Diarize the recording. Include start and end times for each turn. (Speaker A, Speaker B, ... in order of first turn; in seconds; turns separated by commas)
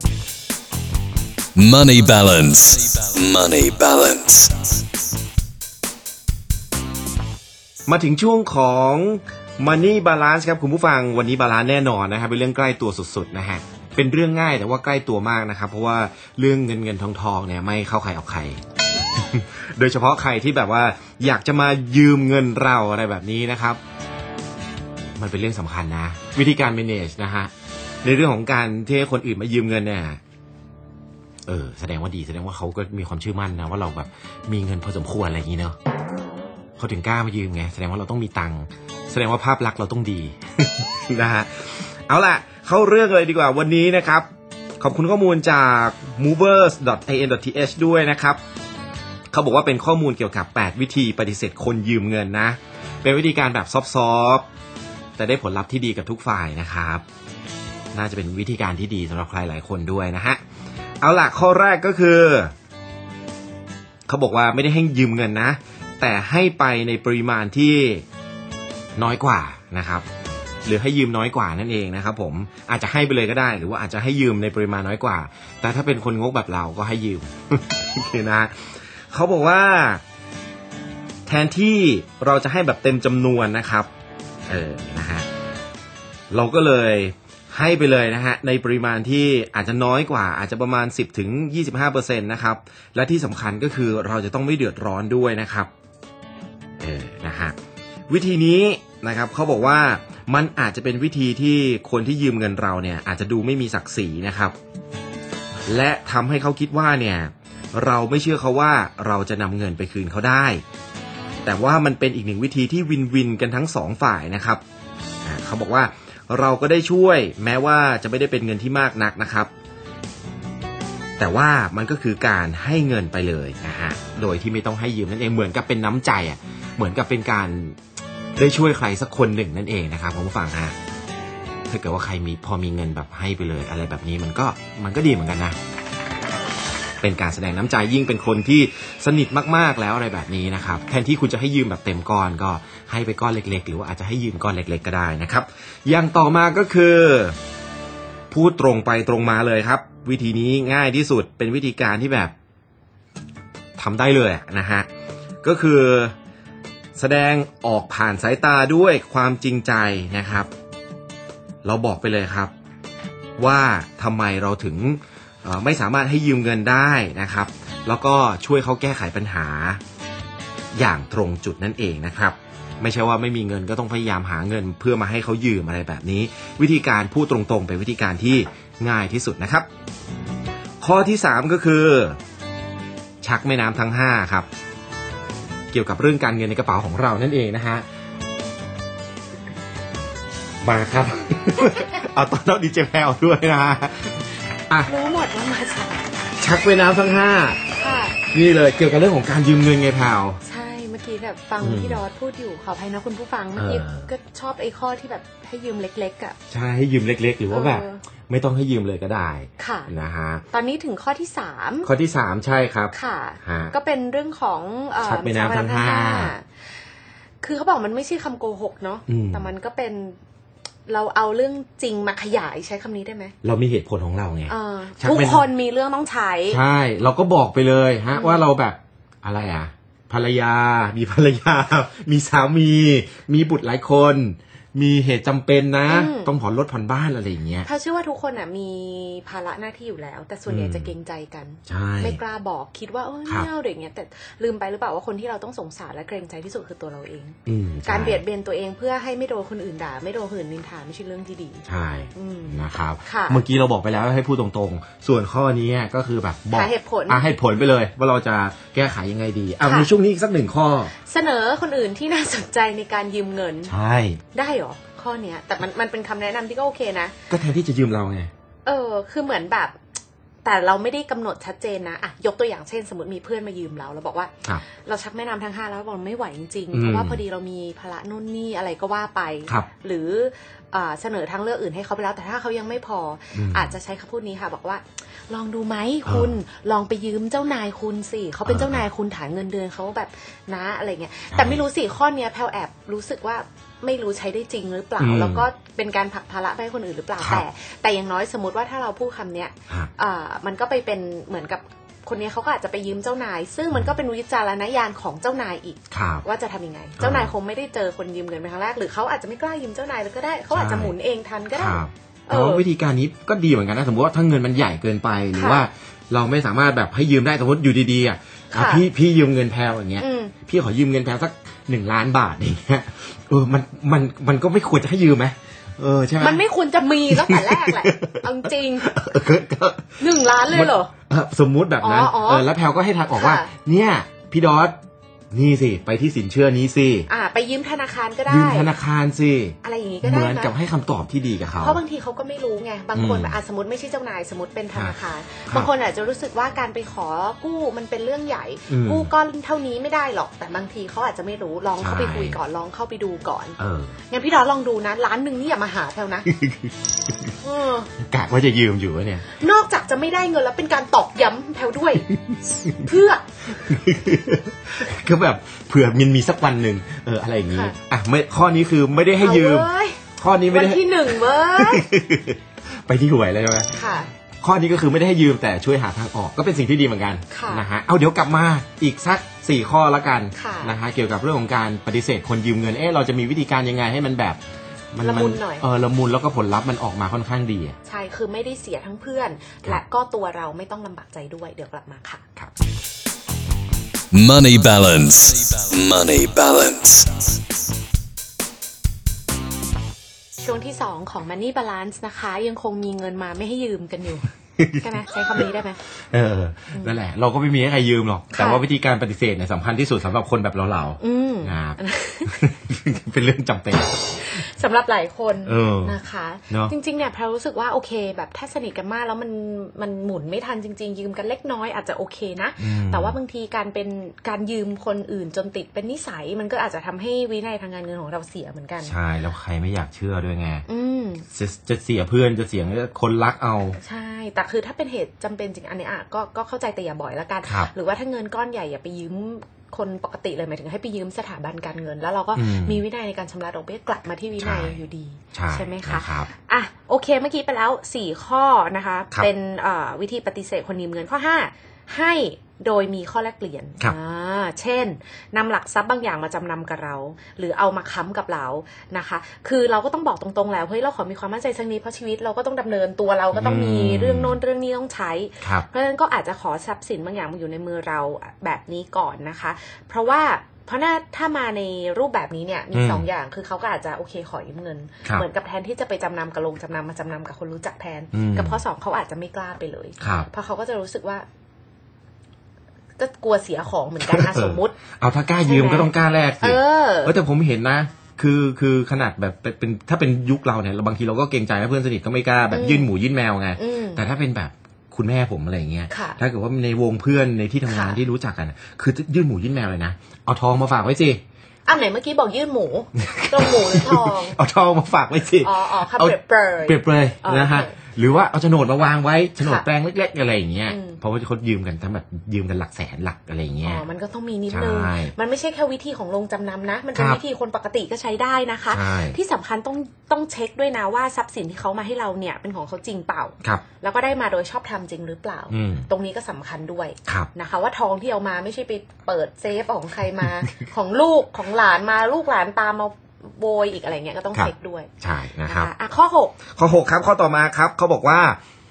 Speaker A: 1.6-4.6, Speaker B: 7.9-18.6, Speaker B: 19.1-23.8, Speaker B: 25.2-27.5, Speaker B: 28.0-30.2, Speaker B: 31.5-35.8, Speaker B: 36.8-44.3, Speaker B: 44.8-48.4, Speaker B: 49.3-54.5, Speaker B: 55.2-57.0, Speaker B: 57.9-60.4, Speaker B: 61.0-62.5, Speaker B: 64.1-68.0, Speaker B: 69.0-70.1, Speaker B: 70.7-80.0, Speaker B: 81.3-83.9, Speaker B: 84.5-85.3, Speaker B: 86.3-95.7, Speaker B: 96.8-97.6, Speaker B: 98.1-104.6, Speaker B: 105.7-110.6, Speaker B: 111.5-114.6, Speaker B: 115.2-119.5, Speaker B: 121.2-127.8, Speaker B: 128.4-130.8, Speaker B: 131.7-135.6, Speaker B: 137.0-147.4, Speaker B: 148.3-152.3, Speaker B: 153.8-154.9, Speaker B: 155.4-156.1, Speaker B: 157.0-160.5, Speaker B: 161.6-162.5, Speaker B: 163.4-169.8, Speaker B: 170.8-179.7, Speaker B: 180.8-182.2, Speaker B: 183.2-184.5, Speaker B: 185.7-187.9, Speaker B: 190.6-194.9, Speaker C: 194.8-196.1, Speaker B: 196.4-197.6, Speaker C: 197.8-198.2, Speaker B: 198.2-200.4, Speaker C: 200.4-206.4, Speaker B: 201.6-202.0, Speaker B: 203.6-204.1, Speaker B: 206.5-210.4, Speaker C: 207.5-208.0, Speaker C: 209.6-209.9, Speaker C: 210.5-211.9, Speaker B: 211.8-213.7, Speaker C: 212.9-216.5, Speaker B: 215.0-216.3, Speaker C: 217.4-220.2, Speaker B: 219.1-219.5, Speaker C: 220.9-223.3, Speaker B: 223.4-225.5, Speaker C: 224.5-226.6, Speaker B: 226.5-237.7, Speaker C: 228.1-228.4, Speaker C: 235.9-236.3, Speaker C: 237.7-253.4, Speaker B: 240.5-240.9, Speaker B: 241.7-242.2, Speaker B: 247.5-248.2, Speaker B: 251.7-260.9, Speaker C: 256.5-257.2, Speaker C: 259.6-259.9, Speaker C: 260.9-263.8, Speaker B: 263.7-264.2, Speaker C: 264.3-267.1, Speaker B: 267.3-268.3, Speaker C: 268.6-269.8, Speaker C: 270.4-312.6, Speaker B: 276.7-277.2, Speaker B: 283.3-283.7, Speaker B: 286.1-286.3, Speaker B: 288.5-288.8, Speaker B: 291.3-291.6, Speaker B: 295.0-295.5, Speaker B: 297.2-297.4, Speaker B: 305.9-306.3, Speaker B: 307.0-307.3, Speaker B: 310.5-310.9, Speaker B: 311.6-326.4, Speaker C: 315.3-315.7, Speaker C: 318.5-318.9, Speaker C: 320.0-320.4, Speaker C: 326.2-328.9, Speaker B: 327.1-334.8, Speaker C: 330.0-330.9, Speaker C: 331.8-332.5, Speaker C: 333.1-333.5, Speaker B: 335.3-337.1, Speaker C: 337.1-338.7, Speaker B: 338.3-341.8, Speaker C: 339.6-340.5, Speaker C: 341.6-356.3, Speaker B: 342.9-343.4, Speaker B: 344.7-345.7, Speaker B: 348.7-349.1, Speaker B: 351.8-352.4, Speaker B: 353.6-354.0, Speaker B: 356.3-356.7, Speaker C: 357.4-357.9, Speaker B: 358.0-359.3, Speaker C: 359.3-362.1, Speaker B: 362.1-362.7, Speaker C: 362.8-363.2, Speaker B: 363.5-373.8, Speaker C: 369.2-371.9, Speaker C: 373.8-374.1, Speaker B: 374.4-384.4, Speaker C: 377.3-377.7, Speaker C: 380.3-380.8, Speaker B: 384.9-387.8, Speaker C: 385.0-385.7, Speaker C: 387.9-392.2, Speaker A: 394.1-397.1, Speaker C: 400.4-405.8, Speaker B: 404.6-404.9, Speaker B: 406.1-414.4, Speaker C: 408.3-408.6, Speaker C: 411.0-412.4, Speaker C: 414.2-428.9, Speaker B: 415.4-416.0, Speaker B: 422.6-423.2, Speaker B: 428.8-430.6, Speaker C: 430.7-431.2, Speaker B: 431.3-433.8, Speaker C: 433.8-481.3, Speaker B: 437.4-437.7, Speaker B: 442.4-442.8, Speaker B: 444.4-444.8, Speaker B: 445.3-446.3, Speaker B: 463.3-464.4, Speaker B: 465.4-465.7, Speaker B: 472.7-473.1, Speaker B: 478.1-478.6, Speaker B: 480.0-480.3, Speaker C: 483.0-484.8, Speaker B: 484.0-501.2, Speaker C: 485.4-487.1, Speaker C: 492.5-492.9, Speaker C: 493.6-494.0, Speaker C: 495.9-496.2, Speaker C: 497.7-498.0, Speaker C: 501.7-504.4, Speaker B: 503.0-513.9, Speaker C: 505.4-507.8, Speaker C: 509.4-509.7, Speaker C: 510.7-511.0, Speaker C: 513.6-534.9, Speaker B: 514.5-515.1, Speaker B: 516.9-517.2, Speaker B: 518.7-519.2, Speaker B: 525.5-525.9, Speaker B: 534.4-535.7, Speaker C: 535.5-536.4, Speaker B: 536.5-538.4